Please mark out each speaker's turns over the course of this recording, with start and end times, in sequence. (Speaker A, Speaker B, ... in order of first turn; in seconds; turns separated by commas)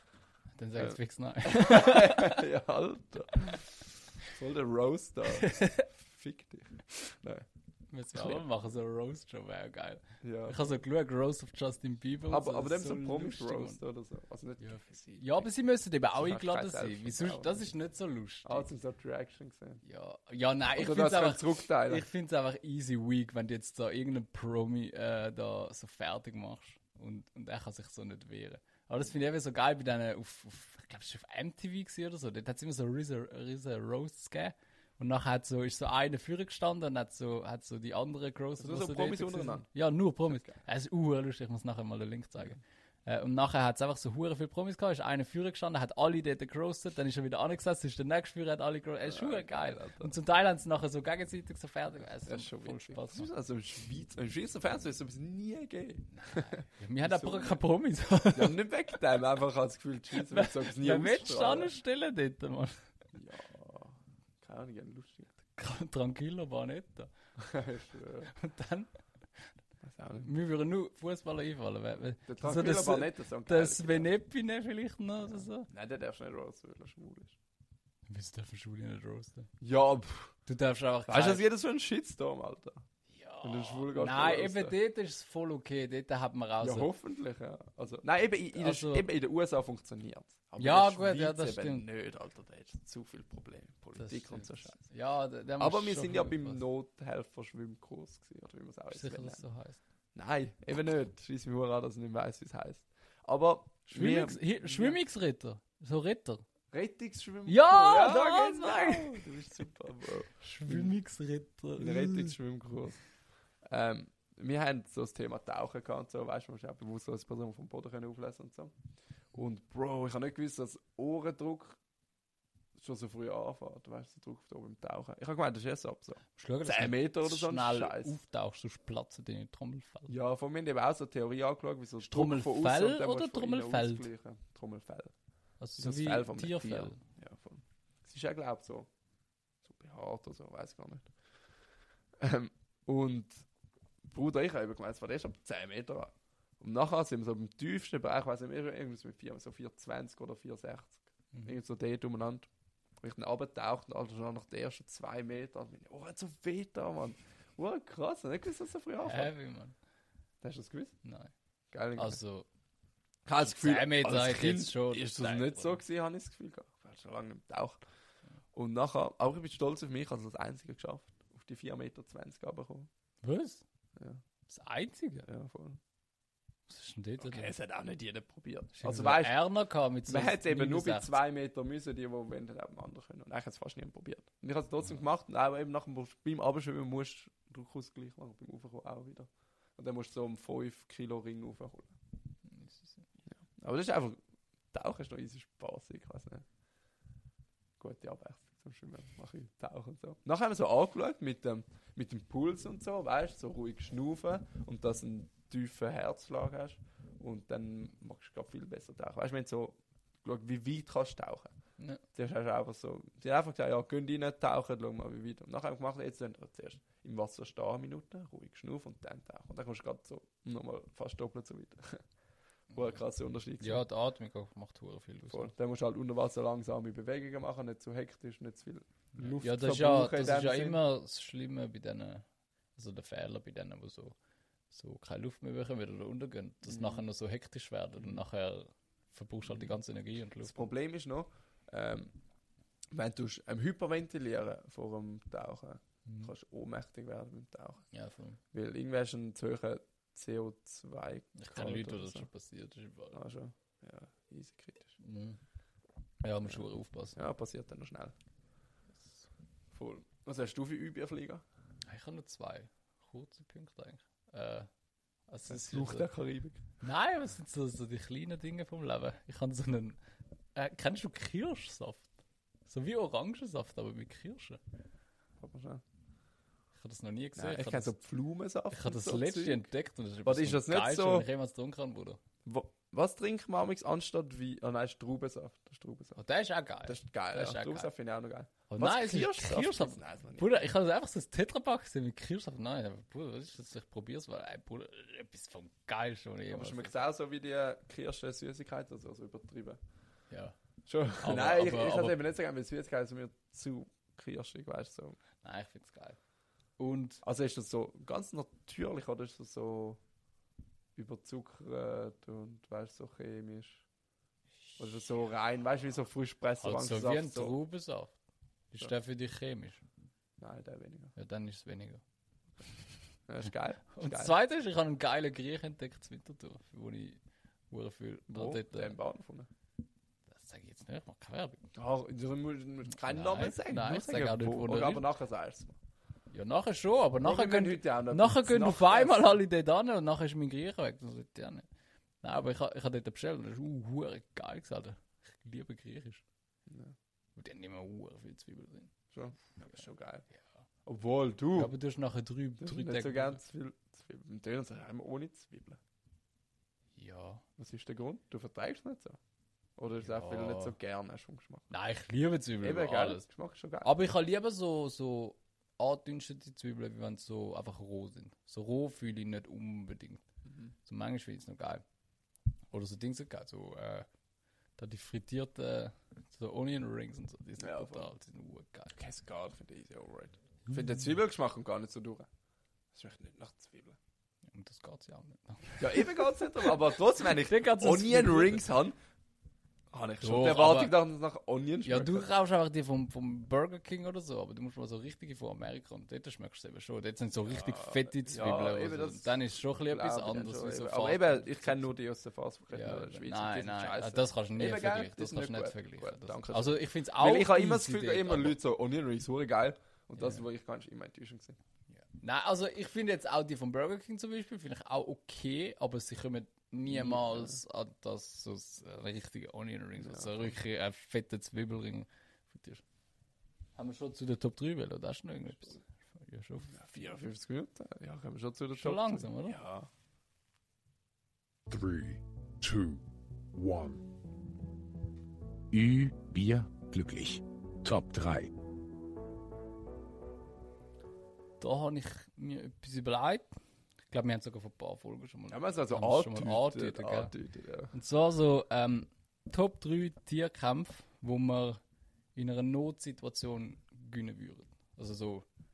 Speaker A: 0.6-2.4, Speaker B: 0.8-7.5, Speaker A: 5.3-5.9, Speaker A: 7.9-13.8, Speaker B: 8.1-8.4, Speaker B: 10.2-10.7, Speaker B: 12.3-15.5, Speaker A: 14.6-18.7, Speaker B: 16.1-17.7, Speaker B: 18.4-19.8, Speaker A: 19.8-53.3, Speaker B: 20.7-22.1, Speaker B: 38.6-39.7, Speaker B: 40.3-40.6, Speaker B: 49.0-50.1, Speaker B: 52.2-57.6, Speaker A: 56.1-58.7, Speaker B: 58.3-61.7, Speaker A: 60.2-62.8, Speaker B: 63.1-65.4, Speaker A: 65.6-67.1, Speaker B: 67.4-68.3, Speaker A: 68.3-68.9, Speaker B: 69.8-70.3, Speaker A: 70.2-75.7, Speaker B: 72.3-74.1, Speaker B: 75.3-77.4, Speaker A: 78.1-79.5, Speaker B: 79.6-80.3, Speaker A: 80.5-81.5, Speaker B: 81.1-82.8, Speaker A: 83.1-86.9, Speaker B: 83.4-84.8, Speaker B: 86.6-94.8, Speaker A: 88.5-89.1, Speaker A: 90.6-91.9, Speaker A: 94.0-96.6, Speaker B: 95.6-99.5, Speaker A: 98.9-99.8, Speaker B: 100.2-105.0, Speaker A: 103.9-106.4, Speaker B: 106.7-111.0, Speaker A: 107.5-109.2, Speaker A: 110.4-112.3, Speaker B: 111.8-113.0, Speaker B: 113.7-118.7, Speaker B: 119.3-121.8, Speaker B: 122.8-128.2, Speaker A: 126.4-130.1, Speaker B: 130.1-135.1, Speaker A: 132.0-134.1, Speaker A: 135.6-137.0, Speaker B: 135.8-138.9, Speaker B: 139.6-141.1, Speaker B: 142.2-143.5, Speaker B: 144.1-152.5, Speaker B: 153.0-159.3, Speaker A: 159.0-159.8, Speaker B: 160.4-161.0, Speaker A: 161.0-161.3, Speaker B: 161.7-162.2, Speaker A: 162.0-162.5, Speaker B: 163.3-167.8, Speaker A: 163.4-165.8, Speaker B: 168.5-172.9, Speaker A: 173.2-173.6, Speaker A: 174.5-175.3, Speaker B: 175.2-175.8, Speaker A: 176.7-177.5, Speaker B: 177.2-179.3, Speaker A: 178.8-181.2, Speaker B: 180.1-192.0, Speaker A: 192.5-193.1, Speaker B: 193.5-194.2, Speaker B: 194.7-196.4, Speaker B: 197.8-211.6, Speaker B: 212.1-222.0, Speaker B: 222.7-223.8, Speaker A: 223.6-225.5, Speaker B: 225.3-230.8, Speaker A: 229.2-232.2, Speaker A: 232.8-234.2, Speaker A: 234.7-240.7, Speaker B: 236.7-237.1, Speaker B: 239.5-239.7, Speaker B: 240.4-242.1, Speaker B: 242.9-247.8, Speaker A: 247.9-248.4, Speaker B: 248.5-252.3, Speaker A: 251.4-253.2, Speaker B: 253.1-255.0, Speaker A: 255.0-255.4, Speaker A: 256.2-257.2, Speaker B: 257.1-258.1, Speaker B: 259.7-261.4, Speaker A: 261.9-264.7, Speaker A: 265.3-266.1, Speaker B: 265.5-266.6, Speaker A: 266.8-270.0, Speaker A: 270.6-272.1, Speaker A: 272.7-274.6, Speaker B: 275.4-275.8, Speaker A: 276.8-277.9, Speaker B: 277.4-279.7, Speaker A: 278.7-282.2, Speaker B: 280.2-281.3, Speaker B: 282.4-286.2, Speaker A: 286.2-287.9, Speaker B: 286.9-290.5, Speaker A: 288.7-296.9, Speaker B: 296.5-299.8, Speaker A: 300.3-300.6, Speaker B: 300.9-305.2, Speaker A: 301.2-302.2, Speaker A: 305.4-306.2, Speaker A: 306.8-307.2, Speaker B: 307.2-310.0, Speaker B: 311.0-313.8, Speaker B: 314.8-317.6, Speaker A: 316.6-318.1, Speaker A: 318.7-319.8, Speaker B: 320.4-321.1, Speaker A: 321.2-322.0, Speaker B: 323.3-324.4, Speaker A: 323.9-327.2, Speaker A: 327.7-328.9, Speaker B: 328.3-329.5, Speaker A: 330.3-331.7, Speaker B: 331.8-335.8, Speaker A: 333.0-335.1, Speaker A: 336.3-341.7, Speaker B: 337.2-339.4, Speaker A: 342.2-346.2, Speaker B: 346.7-346.9, Speaker A: 347.4-348.9, Speaker B: 349.1-350.3, Speaker B: 350.9-351.7, Speaker A: 351.5-353.4, Speaker B: 352.6-355.8, Speaker A: 357.0-357.4, Speaker B: 357.6-359.2, Speaker B: 359.8-361.7, Speaker A: 360.0-360.8, Speaker A: 361.7-363.3, Speaker B: 362.6-363.9, Speaker A: 363.8-370.2, Speaker B: 370.5-370.7, Speaker A: 370.9-371.8, Speaker A: 372.7-374.1, Speaker A: 374.8-379.0, Speaker B: 377.6-378.1, Speaker B: 378.9-382.3, Speaker B: 382.9-384.0, Speaker A: 384.5-388.7, Speaker B: 385.8-389.0, Speaker B: 389.9-392.3, Speaker A: 390.2-390.9, Speaker A: 391.9-401.8, Speaker B: 397.5-411.6, Speaker A: 402.7-408.6, Speaker A: 410.2-410.4, Speaker A: 411.9-422.8, Speaker B: 416.9-417.6, Speaker B: 420.0-420.6, Speaker A: 423.8-426.8, Speaker B: 426.7-429.9, Speaker A: 428.8-429.6, Speaker C: 431.7-433.0, Speaker C: 433.5-434.1, Speaker C: 435.7-438.5, Speaker A: 441.6-443.5, Speaker A: 444.1-447.3, Speaker B: 445.5-447.9, Speaker A: 447.9-451.8, Speaker A: 452.4-455.4